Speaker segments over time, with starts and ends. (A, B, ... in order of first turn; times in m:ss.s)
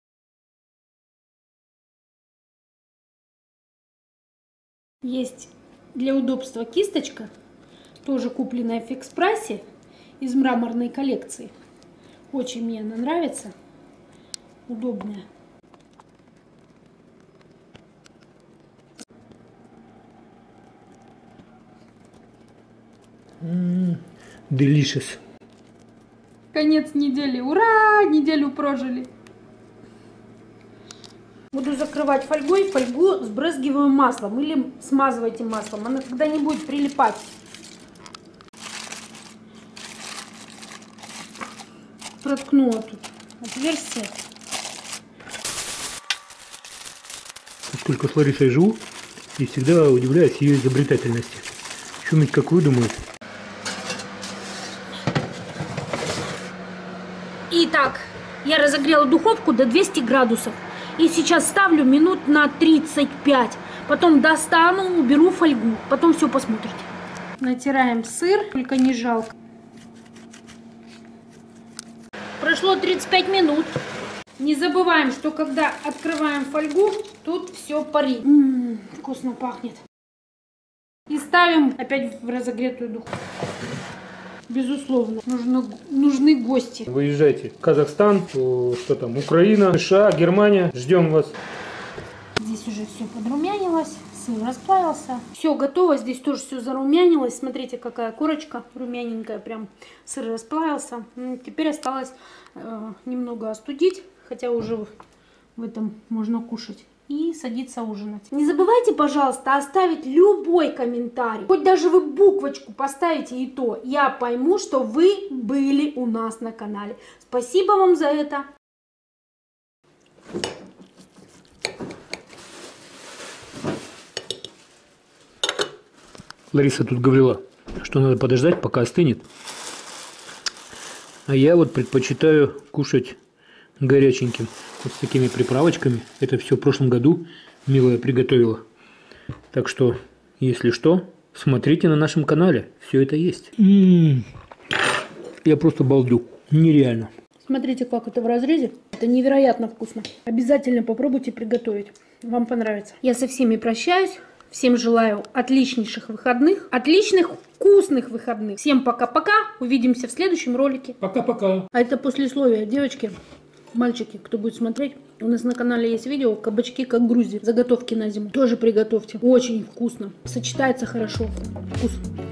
0:05.0-0:07.3 A
0:08.0-0:09.6 A
0:10.2-0:11.5 A
0:12.3-0:13.5 A
0:14.7-0:15.3 A
0:23.4-0:25.2 B
0:26.5-0:29.1 A
0:31.5-0:37.3 A
0:42.2-0:44.2 A
0:47.7-0:48.8 B
0:49.4-0:51.5 B
0:52.0-0:53.0 B
0:57.5-1:09.3 A
1:12.4-1:13.8 A
1:14.4-1:19.8 A
1:21.1-1:23.1 A
1:24.5-1:26.9 A
1:26.9-1:31.4 B
1:32.4-1:44.9 A
1:45.6-1:58.5 A
2:06.5-2:09.2 B
2:11.3-2:13.2 B
2:13.8-2:18.6 B
2:19.5-2:24.3 B
2:25.4-2:27.1 B
2:27.4-2:41.0 A
2:41.0-2:41.7 B
2:41.7-2:43.2 A
2:43.7-2:52.0 A